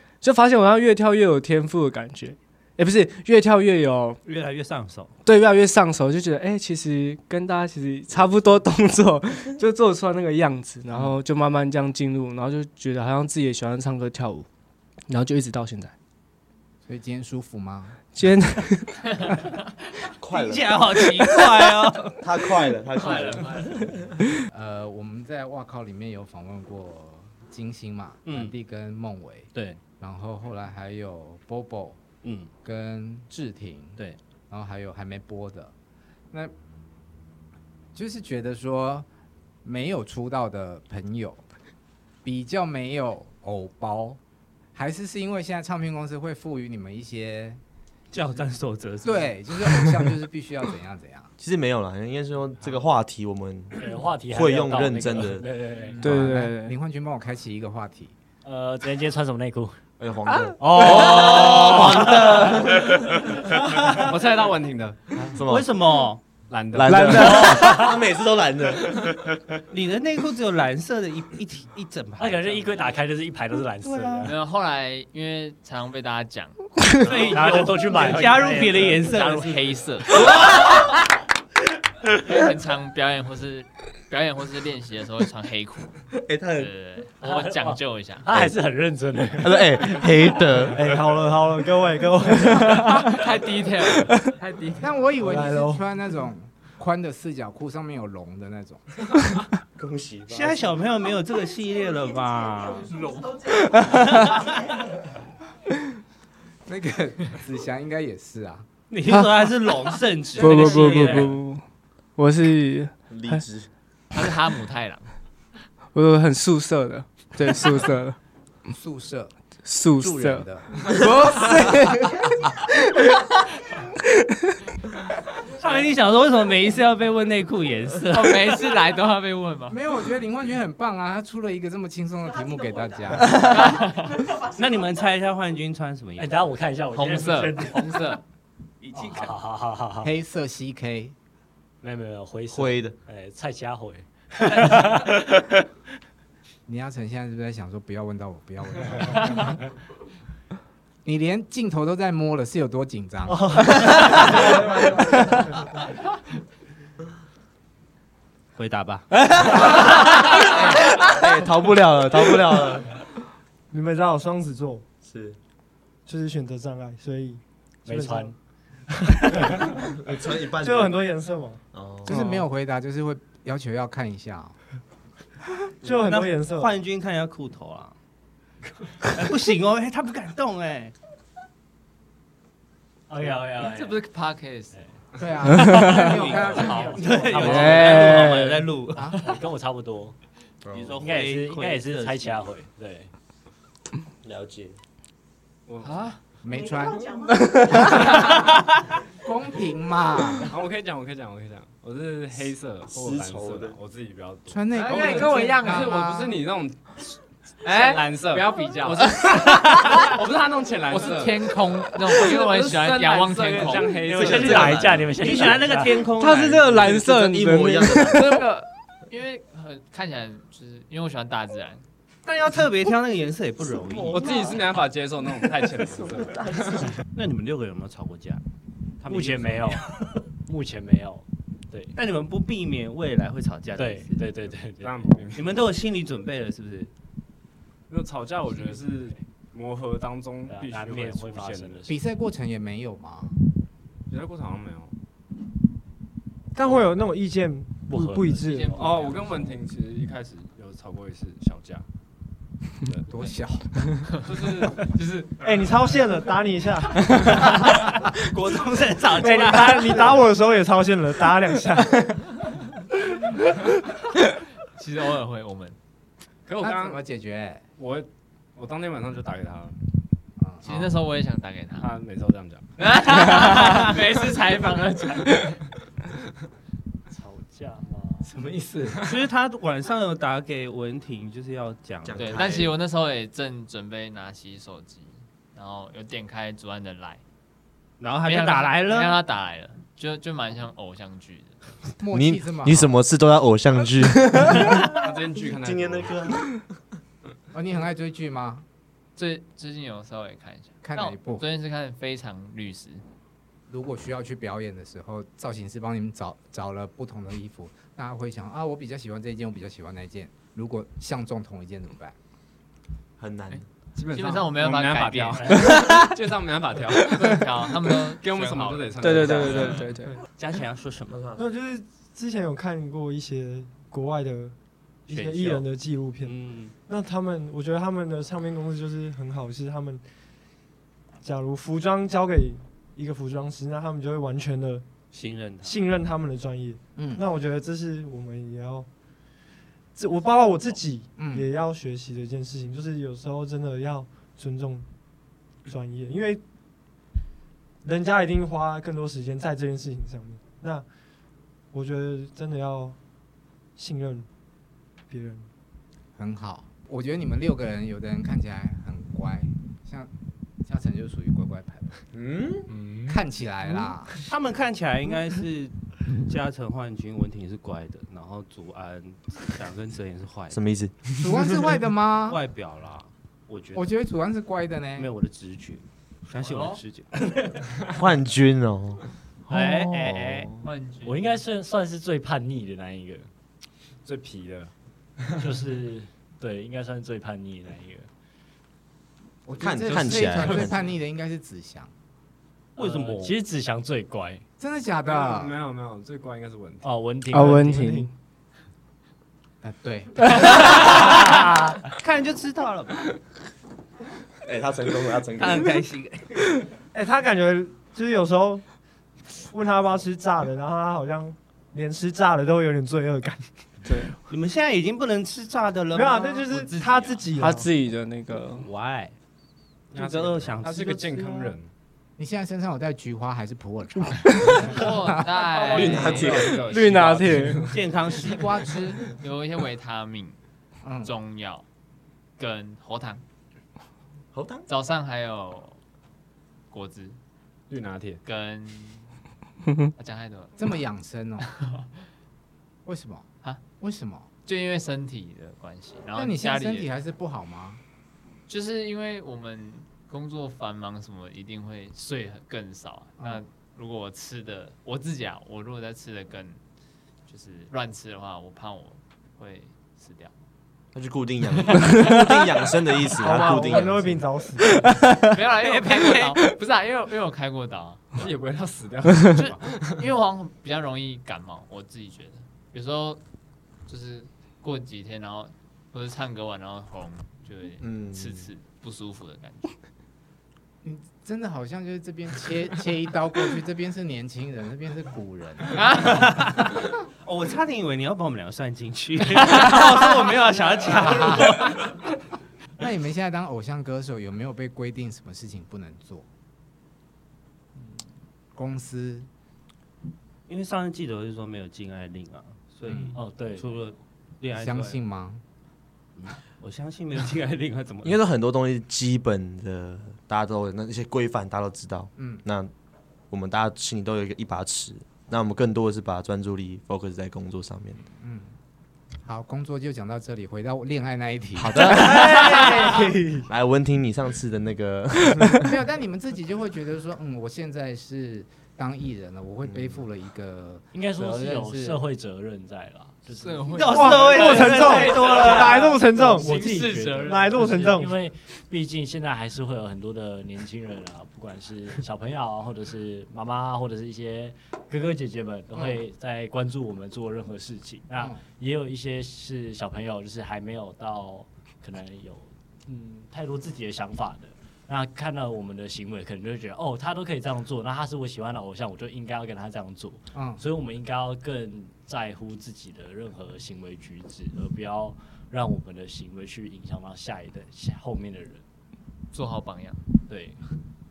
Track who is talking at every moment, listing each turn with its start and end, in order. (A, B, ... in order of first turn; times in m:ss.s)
0:00.2-0:04.2 A
0:04.2-0:05.1 B
0:05.2-0:14.4 A
0:15.1-0:15.9 A
0:16.9-0:18.0 C
0:18.1-0:18.9 A
0:20.2-0:20.8 D
0:20.3-0:22.2 B
0:22.2-0:24.1 D
0:23.0-0:24.0 E
0:24.5-0:32.0 C
0:28.2-0:28.5 B
0:32.2-0:32.5 B
0:32.6-0:35.7 C
0:37.9-0:39.1 C
0:39.6-0:41.4 C
0:42.2-0:44.2 C
0:44.7-0:47.6 C
0:48.1-0:49.8 B
0:49.0-0:51.3 C
0:51.4-0:56.3 D
0:53.8-0:56.0 F
0:56.0-0:56.7 A
0:56.0-0:58.1 C
0:58.4-0:59.8 F
1:00.0-1:04.1 D
1:00.6-1:02.6 F
1:01.1-1:02.0 B
1:03.8-1:05.1 G
1:05.3-1:05.7 D
1:05.4-1:06.2 B
1:06.5-1:07.4 G
1:06.7-1:09.6 D
1:06.9-1:07.7 A
1:06.9-1:08.0 F
1:09.7-1:12.9 B
1:12.2-1:14.3 F
1:14.0-1:14.2 B
1:14.2-1:17.7 E
1:17.0-1:19.7 B
1:17.3-1:19.0 F
1:18.9-1:20.8 E
1:22.2-1:26.0 E
1:26.1-1:26.7 D
1:26.5-1:28.4 E
1:27.2-1:30.2 F
1:29.4-1:31.2 D
1:30.6-1:33.1 H
1:32.5-1:35.0 E
1:34.8-1:38.8 C
1:35.2-1:35.8 H
1:39.8-1:40.8 D
1:40.3-1:44.6 B
1:46.6-1:48.7 C
1:48.9-1:51.4 B
1:49.1-1:49.4 A
1:50.4-1:51.6 A
1:50.4-1:51.2 E
1:52.2-1:53.4 A
1:53.1-1:53.7 D
1:54.1-1:55.1 E
1:55.9-1:58.2 A
1:58.7-1:59.3 C
1:59.6-2:02.2 A
1:59.9-2:02.2 C
2:05.6-2:08.7 B
2:08.1-2:09.8 E
2:09.7-2:13.4 C
2:13.3-2:14.3 E
2:13.3-2:16.4 B
2:16.2-2:18.1 F
2:16.9-2:18.2 E
2:18.8-2:19.3 B
2:18.9-2:20.1 F
2:20.0-2:21.2 C
2:21.8-2:25.2 F
2:22.5-2:23.0 D
2:26.6-2:29.6 C
2:31.0-2:33.7 C
2:34.2-2:34.9 H
2:38.6-2:39.1 B
2:39.2-2:43.0 D
2:43.7-2:44.9 H
2:45.0-2:45.4 D
2:46.0-2:48.3 H
2:47.8-2:48.3 F
2:48.9-2:49.8 H
2:49.9-2:51.0 D
2:50.6-2:51.6 H
2:51.7-2:52.2 D
2:52.0-2:54.6 C
2:55.8-2:56.7 H
2:55.8-2:57.9 B
2:59.0-3:00.9 B
3:03.1-3:04.0 F
3:03.2-3:04.8 E
3:05.2-3:08.1 C
3:05.5-3:05.8 A
3:05.7-3:09.1 B
3:05.8-3:08.2 F
3:07.6-3:08.7 A
3:08.9-3:09.2 C
3:09.1-3:10.2 F
3:10.6-3:11.1 D
3:10.7-3:12.5 B
3:11.0-3:13.1 F
3:14.2-3:14.8 D
3:15.7-3:16.1 G
3:15.8-3:16.2 E
3:16.4-3:20.5 C
3:20.5-3:31.5 G
3:22.9-3:23.8 D
3:24.5-3:26.4 C
3:24.7-3:25.8 E
3:27.6-3:30.2 E
3:30.8-3:34.2 E
3:32.1-3:34.9 G
3:34.1-3:38.5 D
3:34.1-3:36.0 F
3:35.2-3:36.8 B
3:36.1-3:38.4 A
3:38.1-3:41.8 E
3:42.2-3:44.4 B
3:44.1-3:46.9 G
3:45.9-3:46.9 D
3:47.1-3:48.4 B
3:49.0-3:50.0 B
3:49.1-3:51.9 F
3:51.9-3:54.3 B
3:53.8-3:55.2 F
3:54.8-3:55.5 G
3:55.3-3:56.9 B
3:57.9-4:02.0 G
4:00.5-4:01.9 F
4:01.9-4:03.4 C
4:04.1-4:04.9 G
4:06.5-4:08.8 H
4:07.9-4:09.3 F
4:08.4-4:09.5 E
4:08.8-4:11.8 G
4:13.1-4:13.8 C
4:14.2-4:15.6 G
4:15.4-4:17.4 H
4:18.2-4:20.2 B
4:19.1-4:22.3 H
4:24.7-4:25.8 E
4:26.4-4:27.0 G
4:26.6-4:27.6 C
4:27.8-4:29.8 G
4:30.4-4:30.7 C
4:30.6-4:31.9 E
4:31.8-4:32.7 G
4:32.8-4:35.6 E
4:37.1-4:38.3 F
4:38.2-4:39.1 C
4:39.0-4:42.7 B
4:42.0-4:42.7 D
4:42.2-4:47.2 E
4:48.0-4:49.2 B
4:48.2-4:51.6 E
4:52.0-4:53.0 C
4:52.1-4:56.6 D
4:54.7-4:56.3 G
4:57.5-4:58.6 C
4:59.2-5:03.0 E
5:00.8-5:01.4 C
5:03.7-5:12.2 C
5:13.2-5:13.6 D
5:13.5-5:15.8 E
5:14.0-5:20.0 G
5:16.8-5:19.8 E
5:19.0-5:20.2 A
5:20.4-5:21.2 B
5:21.1-5:21.4 D
5:21.4-5:24.5 H
5:25.1-5:30.0 H
5:25.1-5:25.7 B
5:26.2-5:26.7 B
5:31.2-5:34.8 H
5:35.1-5:35.8 B
5:35.6-5:38.9 H
5:37.0-5:37.2 C
5:39.9-5:44.8 H
5:41.2-5:41.5 C
5:45.6-5:46.4 H
5:47.8-5:50.8 H
5:51.7-5:53.0 H
5:53.8-5:54.3 H
5:55.1-5:55.5 H
5:56.2-6:00.1 C
6:00.6-6:02.0 C
6:02.1-6:02.7 D
6:03.0-6:04.1 C
6:04.2-6:10.6 B
6:10.5-6:11.5 D
6:11.2-6:12.4 C
6:12.3-6:13.9 B
6:13.7-6:15.1 C
6:15.0-6:17.1 B
6:16.4-6:16.8 E
6:17.9-6:20.5 D
6:19.5-6:20.5 B
6:19.5-6:20.5 F
6:20.6-6:21.4 E
6:21.0-6:23.3 F
6:24.0-6:24.7 G
6:25.4-6:28.1 F
6:29.4-6:31.9 C
6:29.6-6:30.8 D
6:30.1-6:30.4 G
6:32.8-6:33.4 B
6:32.8-6:34.4 F
6:34.6-6:35.6 C
6:35.0-6:37.5 G
6:36.8-6:38.1 F
6:37.3-6:38.1 A
6:39.6-6:41.0 C
6:40.6-6:43.0 B
6:44.4-6:45.8 D
6:45.4-6:46.6 B
6:46.9-6:48.6 H
6:49.3-6:53.5 H
6:53.8-6:54.2 A
6:54.3-6:56.6 B
6:55.9-6:57.7 H
6:56.5-6:57.3 E
6:57.4-6:58.7 A
6:58.3-6:59.2 B
6:59.9-7:01.1 B
6:59.9-7:01.7 G
7:02.2-7:05.2 C
7:04.2-7:04.6 A
7:04.4-7:06.6 E
7:05.5-7:08.0 G
7:05.6-7:06.6 D
7:06.6-7:07.7 A
7:07.7-7:08.8 B
7:08.1-7:09.0 C
7:09.2-7:10.4 E
7:10.8-7:11.1 C
7:11.0-7:11.6 E
7:12.4-7:13.2 E
7:14.3-7:14.7 D
7:14.7-7:15.8 E
7:16.7-7:17.2 E
7:17.7-7:18.2 G
7:18.2-7:19.2 E
7:20.0-7:20.7 E
7:20.6-7:21.5 C
7:21.4-7:22.0 E
7:22.8-7:24.3 C
7:24.4-7:26.9 E
7:26.2-7:27.8 C
7:28.5-7:36.6 E
7:37.3-7:40.4 E
7:40.9-7:44.2 D
7:41.7-7:42.1 E
7:43.2-7:44.8 H
7:44.6-7:45.3 A
7:45.2-7:48.3 E
7:48.2-7:50.1 G
7:49.3-7:53.2 E
7:53.8-7:59.7 E
7:57.8-7:58.5 D
8:00.8-8:05.8 C
8:05.8-8:06.2 E
8:05.9-8:11.9 B
8:10.9-8:11.6 C
8:12.8-8:16.3 C
8:18.5-8:19.3 C
8:20.5-8:25.0 B
8:22.9-8:23.2 C
8:22.9-8:23.9 F
8:24.5-8:25.4 C
8:26.6-8:28.2 B
8:28.0-8:32.7 D
8:32.2-8:32.4 C
8:33.3-8:38.0 D
8:38.0-8:38.6 C
8:39.2-8:41.9 C
8:41.6-8:45.7 D
8:41.8-8:43.5 H
8:45.6-8:52.0 C
8:49.6-8:50.0 D
8:50.9-9:28.6 F
8:53.3-8:57.9 E
8:53.7-8:55.9 B
8:53.9-8:56.5 H
8:57.3-8:58.1 H
9:05.7-9:06.0 C
9:20.3-9:20.6 C
9:29.3-9:30.0 E
9:30.3-9:30.6 F